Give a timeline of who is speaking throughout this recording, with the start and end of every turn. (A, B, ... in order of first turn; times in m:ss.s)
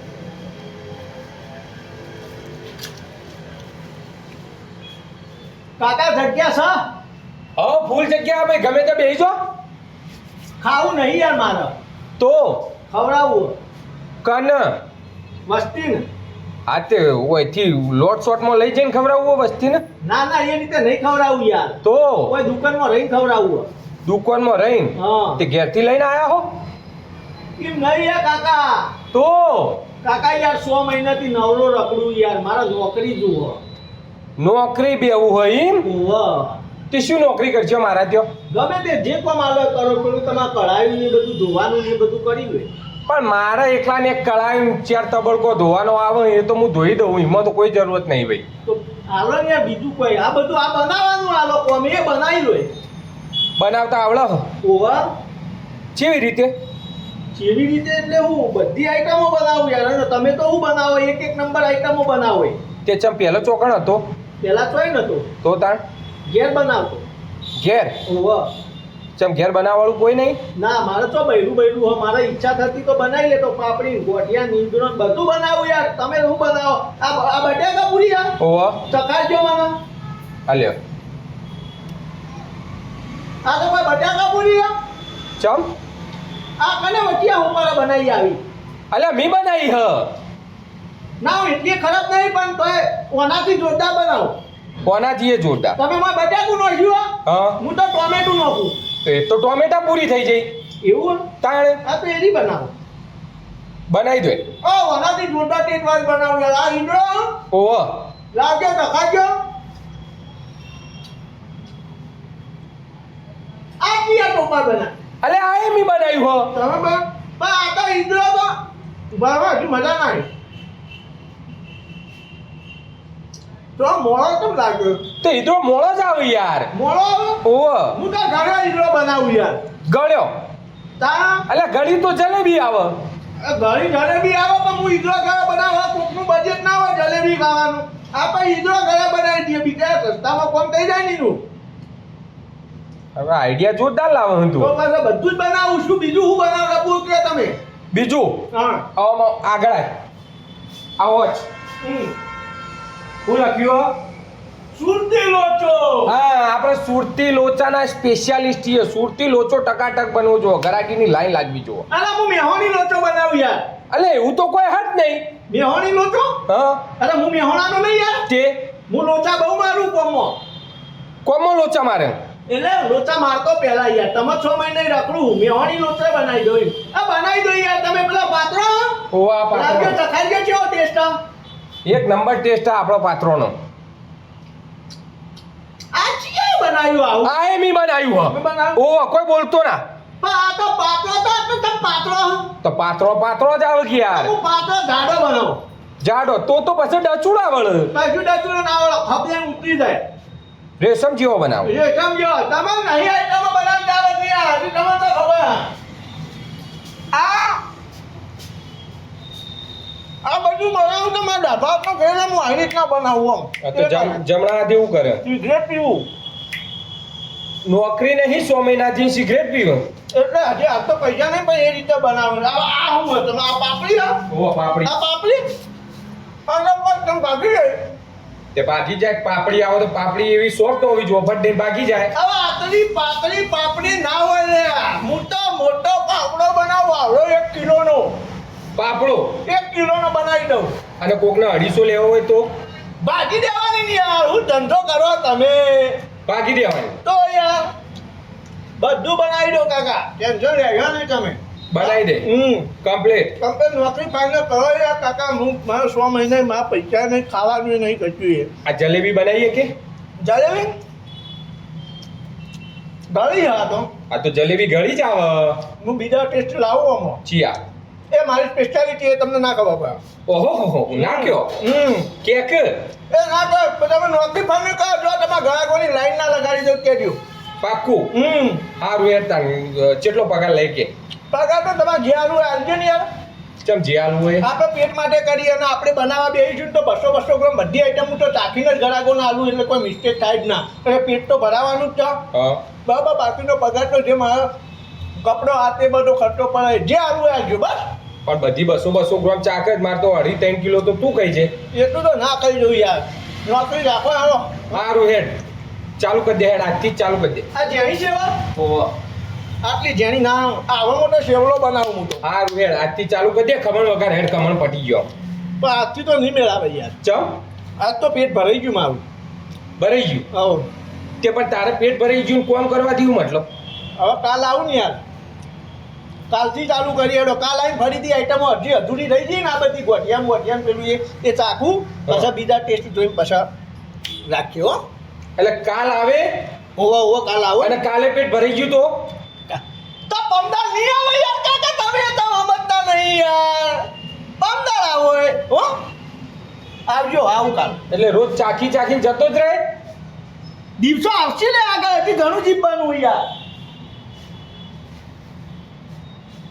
0:05.8-0:06.8 A
0:07.6-0:09.4 B
0:10.6-0:11.7 A
0:12.2-0:12.7 B
0:12.9-0:13.5 A
0:14.2-0:14.8 B
0:15.5-0:16.0 A
0:16.7-0:19.8 B
0:20.0-0:23.7 A
0:21.8-0:22.3 B
0:24.0-0:26.5 B
0:25.0-0:25.4 A
0:27.6-0:28.9 A
0:29.1-0:29.8 B
0:30.0-0:33.6 A
0:34.4-0:35.9 B
0:35.8-0:36.6 A
0:36.9-0:38.3 B
0:38.5-0:42.7 A
0:43.1-0:48.4 B
0:48.6-0:52.7 A
0:53.6-0:54.5 B
0:54.6-0:55.1 A
0:55.9-0:56.5 B
0:57.4-1:02.6 A
1:02.8-1:04.0 B
1:04.4-1:05.3 A
1:05.4-1:05.8 B
1:06.2-1:07.0 A
1:07.6-1:08.0 B
1:08.0-1:08.5 A
1:09.2-1:10.4 B
1:10.6-1:18.4 A
1:18.4-1:18.8 B
1:18.9-1:19.7 A
1:20.5-1:20.8 B
1:23.4-1:24.7 A
1:25.4-1:25.7 B
1:26.6-1:28.4 A
1:28.9-1:30.1 B
1:31.2-1:34.4 A
1:34.8-1:35.8 B
1:35.8-1:38.8 A
1:37.2-1:37.6 B
1:39.0-1:40.5 B
1:40.8-1:41.3 A
1:41.4-1:41.8 B
1:41.8-1:42.7 A
1:43.9-1:44.5 B
1:44.6-1:47.4 A
1:47.5-1:48.0 B
1:48.3-1:49.3 A
1:53.8-1:54.9 A
1:55.2-1:56.5 B
1:56.5-1:58.6 A
1:59.1-2:00.3 A
2:03.8-2:05.0 A
2:05.2-2:06.7 B
2:06.7-2:09.6 A
2:07.4-2:08.0 B
2:09.8-2:10.3 B
2:11.0-2:11.5 A
2:11.5-2:13.0 B
2:13.4-2:21.4 A
2:23.2-2:24.7 B
2:24.6-2:27.6 A
2:27.9-2:28.4 B
2:28.5-2:28.8 A
2:29.0-2:29.9 B
2:31.0-2:31.4 B
2:31.8-2:32.1 A
2:33.2-2:33.9 B
2:34.7-2:36.1 A
2:36.0-2:41.8 B
2:41.9-2:43.6 A
2:43.9-2:45.3 B
2:45.5-2:46.4 A
2:46.5-2:46.8 B
2:47.0-2:48.3 A
2:48.3-2:48.6 B
2:48.9-2:50.4 A
2:51.2-2:52.2 B
2:52.5-3:01.2 A
2:59.1-3:00.0 B
3:01.8-3:03.5 B
3:05.9-3:07.3 A
3:07.2-3:09.8 B
3:08.3-3:08.8 A
3:10.2-3:12.5 A
3:12.6-3:14.3 B
3:14.1-3:15.6 A
3:16.0-3:17.9 B
3:17.9-3:20.0 A
3:20.8-3:21.7 B
3:21.6-3:25.7 A
3:27.1-3:27.6 A
3:30.2-3:34.2 A
3:33.6-3:35.2 B
3:35.2-3:36.1 A
3:37.6-3:39.9 B
3:40.1-3:44.2 A
3:44.3-3:44.9 B
3:44.8-3:45.4 A
3:46.5-3:47.9 A
3:48.5-3:52.1 B
3:52.1-3:58.2 A
3:58.8-3:59.4 B
3:59.4-4:00.7 A
4:01.0-4:02.5 B
4:03.0-4:06.0 A
4:06.3-4:07.0 B
4:07.0-4:07.7 A
4:08.8-4:12.7 A
4:11.7-4:12.3 B
4:12.8-4:13.3 B
4:13.4-4:18.5 A
4:18.6-4:19.7 B
4:20.2-4:20.7 A
4:23.1-4:23.9 A
4:24.1-4:25.6 B
4:25.8-4:27.2 A
4:27.2-4:27.6 B
4:28.1-4:30.0 A
4:30.3-4:31.6 B
4:30.9-4:32.1 A
4:32.1-4:32.8 B
4:33.1-4:37.2 A
4:37.6-4:38.1 B
4:38.1-4:38.7 A
4:38.8-4:40.9 B
4:41.3-4:43.0 A
4:43.6-4:44.5 B
4:44.4-4:52.2 A
4:52.3-4:52.6 B
4:52.8-4:54.5 A
4:55.2-4:57.8 A
4:58.2-5:01.5 B
5:01.7-5:04.7 A
5:04.7-5:05.4 B
5:06.0-5:07.5 B
5:07.5-5:08.4 A
5:08.6-5:08.9 B
5:09.6-5:12.2 A
5:12.2-5:15.0 B
5:15.6-5:16.9 A
5:17.0-5:17.4 B
5:17.8-5:19.0 A
5:19.8-5:20.3 B
5:20.3-5:20.7 A
5:21.2-5:23.4 B
5:24.0-5:25.0 A
5:26.3-5:33.5 A
5:34.2-5:34.8 A
5:35.4-5:36.3 B
5:36.8-5:37.8 A
5:37.6-5:39.0 B
5:39.5-5:43.9 A
5:44.4-5:45.7 A
5:46.9-5:47.8 A
5:47.9-5:49.6 B
5:50.8-5:53.2 A